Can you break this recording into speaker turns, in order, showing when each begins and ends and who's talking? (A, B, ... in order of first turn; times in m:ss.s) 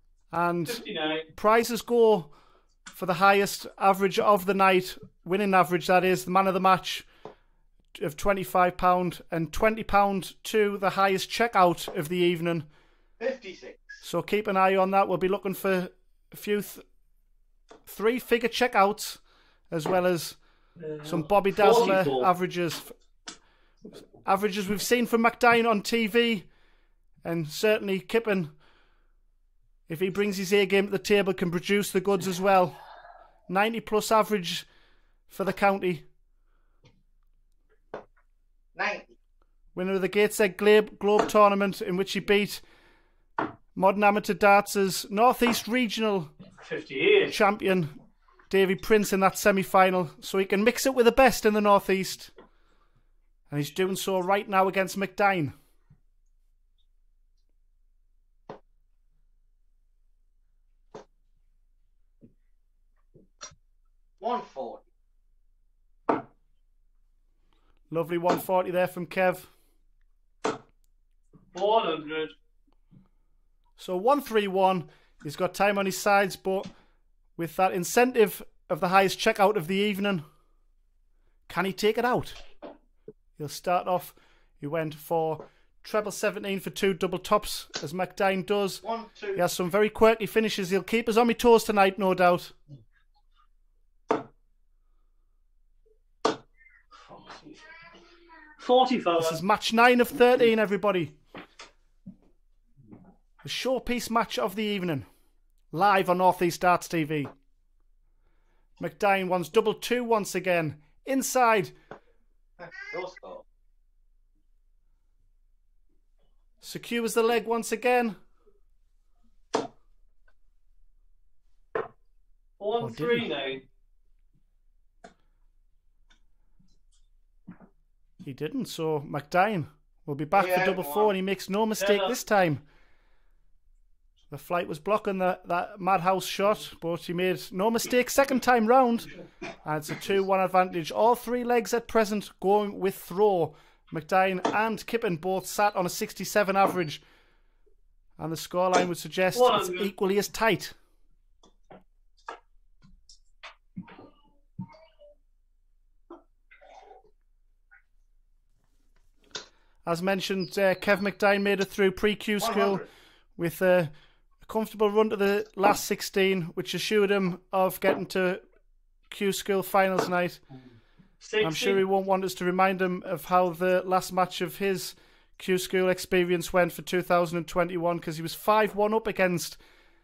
0:00.3-0:02.3 A
0:00.6-0:01.3 B
0:02.9-0:07.1 A
0:07.9-0:12.7 A
0:13.2-0:14.0 C
0:14.0-0:16.8 A
0:17.8-0:20.4 A
0:20.8-0:22.3 B
0:21.0-0:22.9 A
0:24.2-0:26.5 A
0:27.2-0:28.5 A
0:29.9-0:32.8 A
0:33.5-0:34.6 A
0:35.3-0:36.0 A
0:38.7-0:39.1 C
0:39.7-0:42.6 A
0:43.8-0:46.3 A
0:46.6-0:47.3 B
0:47.3-0:47.9 A
0:48.5-0:52.3 A
0:53.5-0:55.5 A
1:04.2-1:04.8 C
1:07.9-1:09.5 A
1:11.5-1:12.3 B
1:13.8-1:16.7 A
1:17.4-1:20.2 A
1:21.5-1:22.4 A
1:23.4-1:28.8 A
1:28.8-1:29.4 C
1:29.4-1:32.5 A
1:37.1-1:37.6 B
1:38.6-1:39.4 B
1:39.2-1:41.2 A
1:43.4-1:45.1 A
1:45.7-1:47.3 A
1:48.8-1:51.7 A
1:52.8-1:53.4 C
1:56.6-1:58.2 A
2:02.6-2:03.6 B
2:02.8-2:03.3 A
2:08.2-2:12.6 A
2:10.3-2:11.1 C
2:11.8-2:12.1 B
2:14.3-2:19.1 A
2:19.6-2:27.0 A
2:28.2-2:30.8 A
2:29.3-2:29.9 B
2:39.8-2:42.8 A
2:42.4-2:42.9 C
2:43.4-2:48.4 A
2:49.1-2:50.4 A
2:51.2-2:51.8 B
2:51.4-2:59.6 A